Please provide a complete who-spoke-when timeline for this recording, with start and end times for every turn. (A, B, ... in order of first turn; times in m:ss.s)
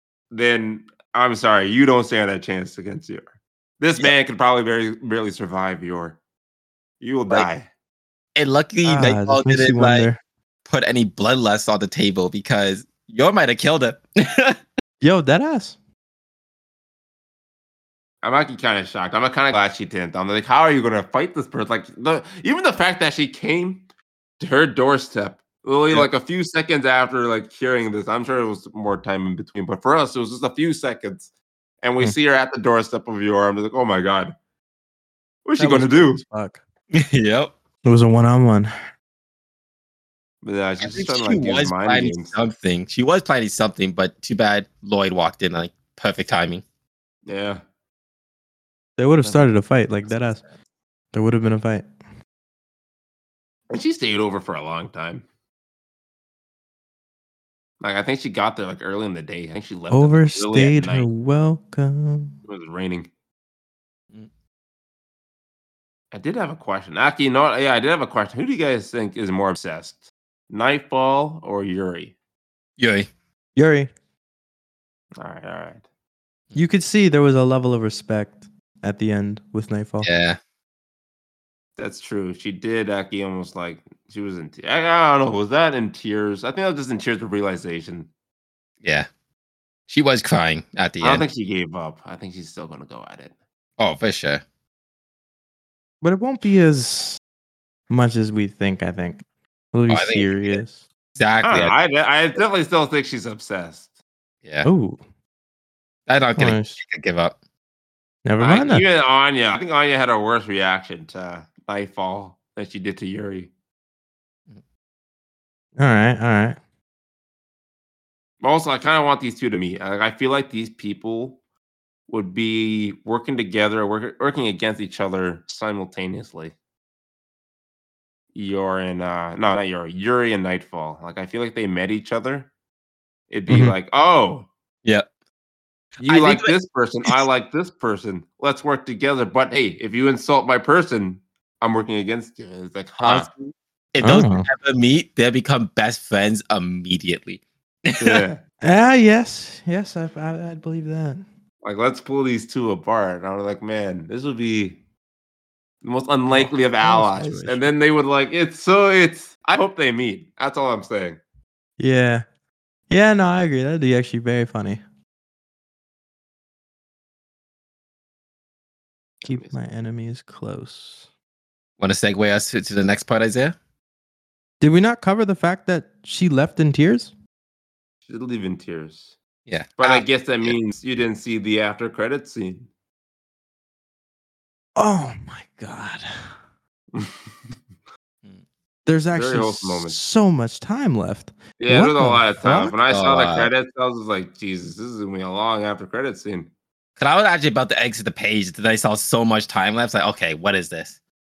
0:00.3-0:03.3 A
0:03.8-0:06.2 A
0:07.0-0:07.7 A
0:08.4-0:10.1 B
0:08.8-0:10.2 C
0:10.7-0:14.6 B
0:15.0-0:15.8 C
0:18.2-0:23.8 A
0:24.4-0:31.3 A
0:31.8-0:34.3 A
0:35.4-0:36.2 A
0:35.6-0:36.6 C
0:36.9-0:37.5 B
0:37.8-0:38.7 C
0:40.4-0:42.3 A
0:40.8-0:46.6 B
0:47.3-0:47.6 A
0:49.0-0:50.4 C
0:51.1-0:51.9 C
0:53.7-0:55.2 A
0:57.8-1:01.1 A
0:59.9-1:02.4 C
1:02.5-1:03.1 A
1:06.1-1:12.1 A
1:12.8-1:13.1 B
1:13.6-1:13.9 C
1:15.2-1:15.8 A
1:16.6-1:20.1 C
1:20.0-1:20.4 B
1:21.8-1:28.1 A
1:28.8-1:29.1 B
1:29.9-1:31.2 B
1:31.0-1:33.3 A
1:33.8-1:34.4 B
1:36.0-1:37.2 C
1:37.9-1:40.8 C
1:39.9-1:40.6 B
1:41.2-1:41.8 B
1:41.4-1:43.9 A
1:44.6-1:45.0 C
1:46.1-1:47.4 B
1:46.4-1:46.8 C
1:48.2-1:48.8 C
1:48.4-1:53.5 A
1:55.8-1:56.6 C
1:58.4-2:01.4 A
2:02.1-2:06.5 A
2:08.4-2:12.5 A
2:13.3-2:14.5 A
2:16.0-2:16.5 B
2:16.0-2:23.3 A
2:23.0-2:28.2 B
2:24.0-2:24.5 C
2:28.0-2:28.4 A
2:28.6-2:31.2 C
2:31.6-2:34.8 A
2:35.8-2:41.2 A
2:36.3-2:37.7 C
2:41.8-2:42.2 C
2:42.9-2:44.8 C
2:49.2-2:49.5 A
2:49.2-2:51.1 C
2:51.8-2:53.6 B
2:54.6-2:57.1 C
2:58.1-2:59.2 A
2:59.5-3:00.5 B
2:59.8-3:02.7 A
3:04.8-3:06.1 C
3:06.9-3:07.5 A
3:08.9-3:12.8 C
3:09.1-3:10.0 A
3:11.6-3:16.5 A
3:12.9-3:13.5 B
3:17.0-3:21.0 B